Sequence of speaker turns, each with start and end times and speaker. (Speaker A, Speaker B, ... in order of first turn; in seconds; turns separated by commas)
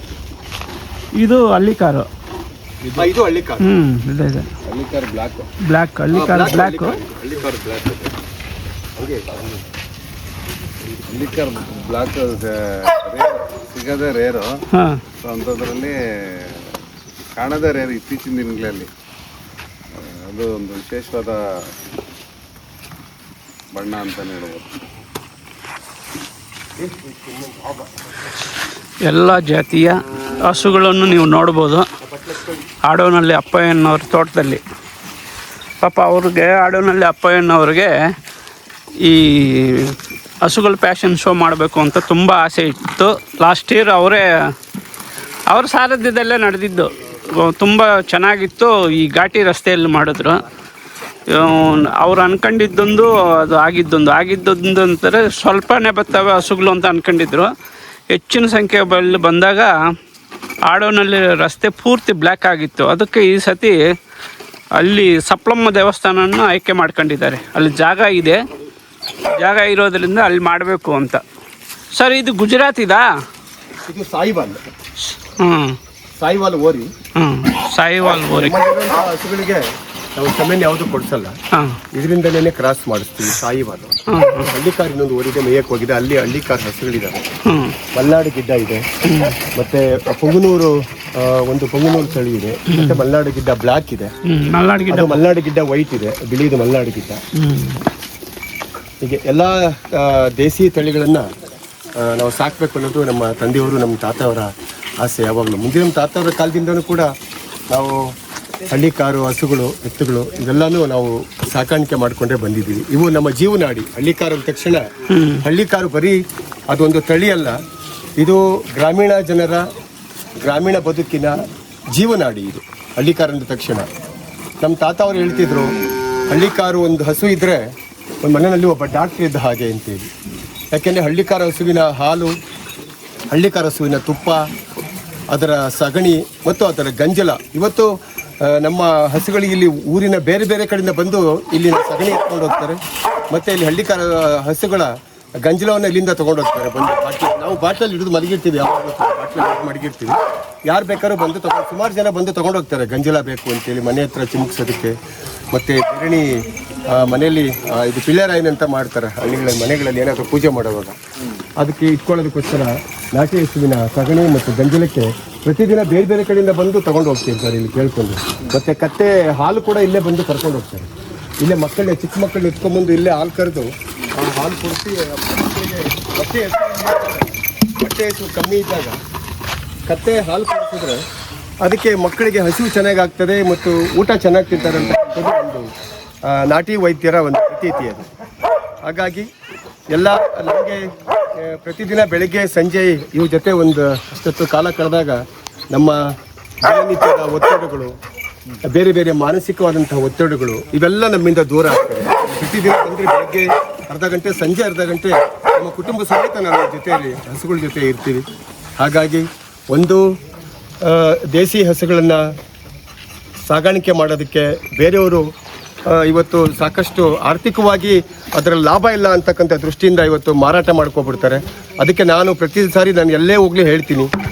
Speaker A: 1.2-2.1, Speaker B: 2.9-3.7, Speaker A: 3.6-4.5, Speaker C: 4.6-5.5, Speaker A: 5.6-7.0, Speaker B: 6.1-8.1, Speaker B: 8.9-9.5, Speaker C: 11.1-14.6, Speaker A: 14.7-15.0, Speaker C: 15.2-16.7, Speaker C: 17.4-18.9, Speaker C: 19.9-21.4, Speaker C: 23.7-24.8, Speaker B: 26.8-27.9, Speaker A: 29.1-31.9, Speaker B: 32.0-32.6, Speaker A: 32.9-34.6, Speaker A: 35.8-37.9, Speaker A: 39.0-44.3, Speaker A: 45.5-50.4, Speaker A: 51.3-57.5, Speaker A: 58.1-59.7, Speaker A: 60.7-63.8, Speaker A: 64.8-68.4, Speaker A: 69.2-71.2, Speaker A: 72.0-73.0, Speaker B: 73.8-74.6, Speaker A: 75.2-75.8, Speaker B: 76.2-76.9, Speaker A: 77.2-78.6, Speaker B: 78.0-81.3, Speaker A: 81.5-81.8, Speaker B: 81.9-83.9, Speaker A: 84.1-84.5, Speaker B: 84.5-87.2, Speaker A: 87.5-87.8, Speaker B: 87.9-94.1, Speaker A: 89.0-89.4, Speaker A: 92.7-93.0, Speaker A: 94.3-95.2, Speaker B: 94.9-97.2, Speaker A: 97.4-97.8, Speaker B: 99.0-101.2, Speaker B: 102.0-107.1, Speaker B: 107.7-108.1, Speaker B: 108.7-114.8, Speaker A: 115.1-115.4, Speaker B: 115.4-116.2, Speaker B: 116.7-117.6, Speaker B: 118.2-119.7, Speaker B: 120.4-121.4, Speaker B: 121.9-123.9, Speaker B: 124.6-125.8, Speaker B: 126.3-127.7, Speaker B: 128.2-130.1, Speaker B: 130.7-132.3, Speaker B: 133.3-134.4, Speaker B: 135.3-144.9, Speaker B: 145.4-154.9, Speaker B: 155.5-161.0, Speaker B: 161.6-170.9, Speaker B: 171.4-179.0, Speaker B: 179.9-181.0, Speaker B: 181.6-185.7, Speaker B: 186.2-188.0, Speaker B: 188.8-189.3, Speaker B: 189.9-196.0, Speaker B: 196.6-197.9, Speaker B: 198.7-208.2, Speaker B: 208.8-210.0, Speaker B: 210.8-212.2, Speaker B: 213.5-215.2, Speaker B: 215.9-224.1